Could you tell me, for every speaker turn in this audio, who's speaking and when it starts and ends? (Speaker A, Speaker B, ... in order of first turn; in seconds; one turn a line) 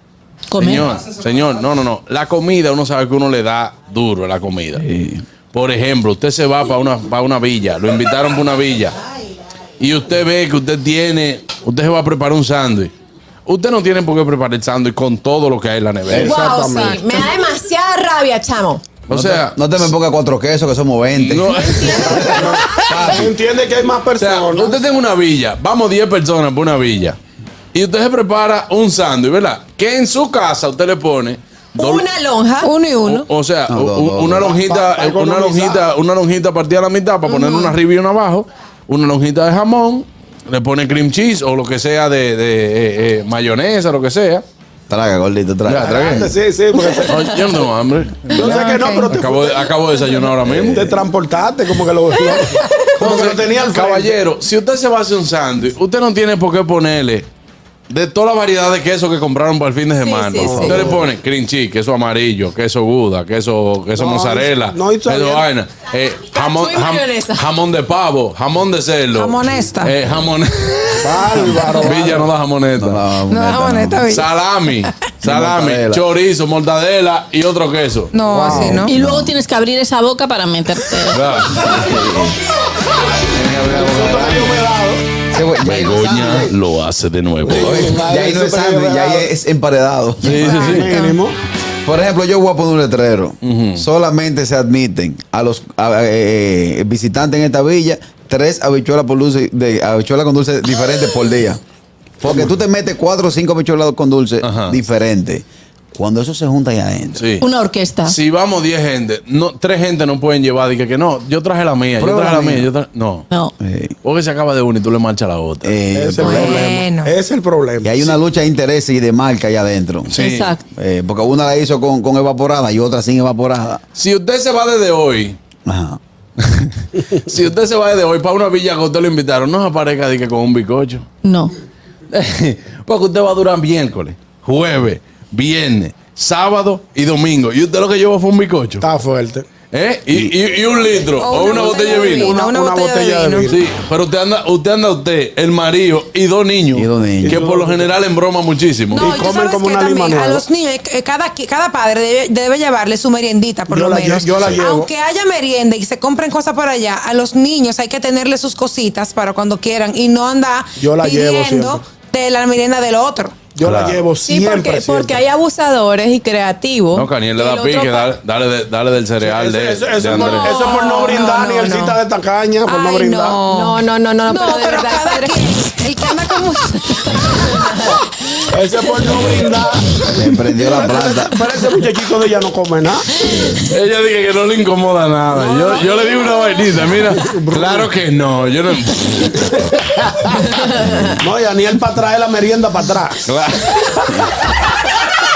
Speaker A: 0.6-0.8
Speaker B: 0.6-4.8
Speaker C: 4.8-5.2
Speaker B: 5.5-8.9
Speaker B: 9.8-12.9
Speaker B: 13.4-16.5
Speaker D: 16.1-17.3
Speaker E: 16.1-18.9
Speaker B: 19.1-19.9
Speaker C: 19.1-23.3
Speaker B: 21.1-22.5
Speaker E: 21.5-23.2
Speaker D: 22.2-24.7
Speaker B: 24.2-27.2
Speaker B: 27.7-32.1
Speaker E: 31.8-32.7
Speaker F: 32.6-33.2
Speaker B: 33.0-44.4
Speaker C: 33.7-34.5
Speaker D: 34.4-35.9
Speaker E: 37.3-37.7
Speaker C: 44.9-46.3
Speaker B: 45.7-46.3
Speaker D: 45.8-47.3
Speaker B: 47.0-50.9
Speaker F: 48.3-49.1
Speaker D: 48.3-49.7
Speaker C: 50.5-51.0
Speaker D: 50.7-54.1
Speaker E: 52.1-52.9
Speaker B: 53.0-57.3
Speaker B: 57.9-73.0
Speaker E: 60.0-60.8
Speaker C: 60.4-61.0
Speaker D: 63.9-65.5
Speaker E: 66.3-67.5
Speaker F: 69.1-69.9
Speaker D: 71.0-72.3
Speaker C: 72.8-74.0
Speaker F: 73.3-74.3
Speaker B: 74.1-78.1
Speaker C: 75.2-76.0
Speaker F: 78.1-79.0
Speaker D: 78.3-78.8
Speaker C: 78.5-79.3
Speaker A: 78.8-81.1
Speaker B: 81.1-81.7
Speaker C: 81.6-82.4
Speaker C: 83.3-84.6
Speaker D: 83.7-85.0
Speaker C: 85.3-86.5
Speaker B: 85.6-88.0
Speaker D: 87.4-89.3
Speaker C: 87.5-90.8
Speaker B: 90.2-90.9
Speaker D: 90.4-91.4
Speaker F: 90.4-91.2
Speaker C: 91.8-101.6
Speaker B: 93.4-93.8
Speaker C: 102.2-107.3
Speaker B: 104.4-104.8
Speaker B: 107.2-107.4
Speaker A: 107.4-108.1
Speaker B: 108.0-113.3
Speaker C: 112.0-112.7
Speaker C: 113.6-113.9
Speaker B: 114.0-115.8
Speaker C: 115.6-116.5
Speaker D: 115.9-118.1
Speaker F: 116.2-117.1
Speaker C: 117.8-120.2
Speaker B: 120.1-120.5
Speaker A: 120.2-120.6
Speaker C: 120.7-123.8
Speaker B: 124.0-125.4
Speaker C: 125.7-126.0
Speaker B: 126.4-131.0
Speaker B: 132.1-138.8
Speaker D: 138.8-139.4
Speaker B: 139.7-142.4
Speaker F: 141.2-143.5
Speaker D: 141.6-143.6
Speaker B: 143.5-149.2
Speaker C: 146.7-147.4
Speaker D: 147.2-147.9
Speaker F: 148.9-163.5
Speaker D: 149.0-150.4
Speaker D: 153.7-154.9
Speaker D: 160.8-161.8
Speaker D: 163.5-165.2
Speaker B: 163.6-164.1
Speaker E: 164.2-168.1
Speaker B: 166.9-170.5
Speaker D: 169.2-173.4
Speaker E: 170.1-171.2
Speaker F: 170.3-172.0
Speaker F: 172.6-178.4
Speaker E: 173.5-175.7
Speaker D: 178.4-180.1
Speaker C: 180.1-181.4
Speaker D: 180.8-183.1
Speaker B: 183.7-189.7
Speaker D: 187.2-187.9
Speaker D: 191.2-193.2
Speaker B: 193.2-194.4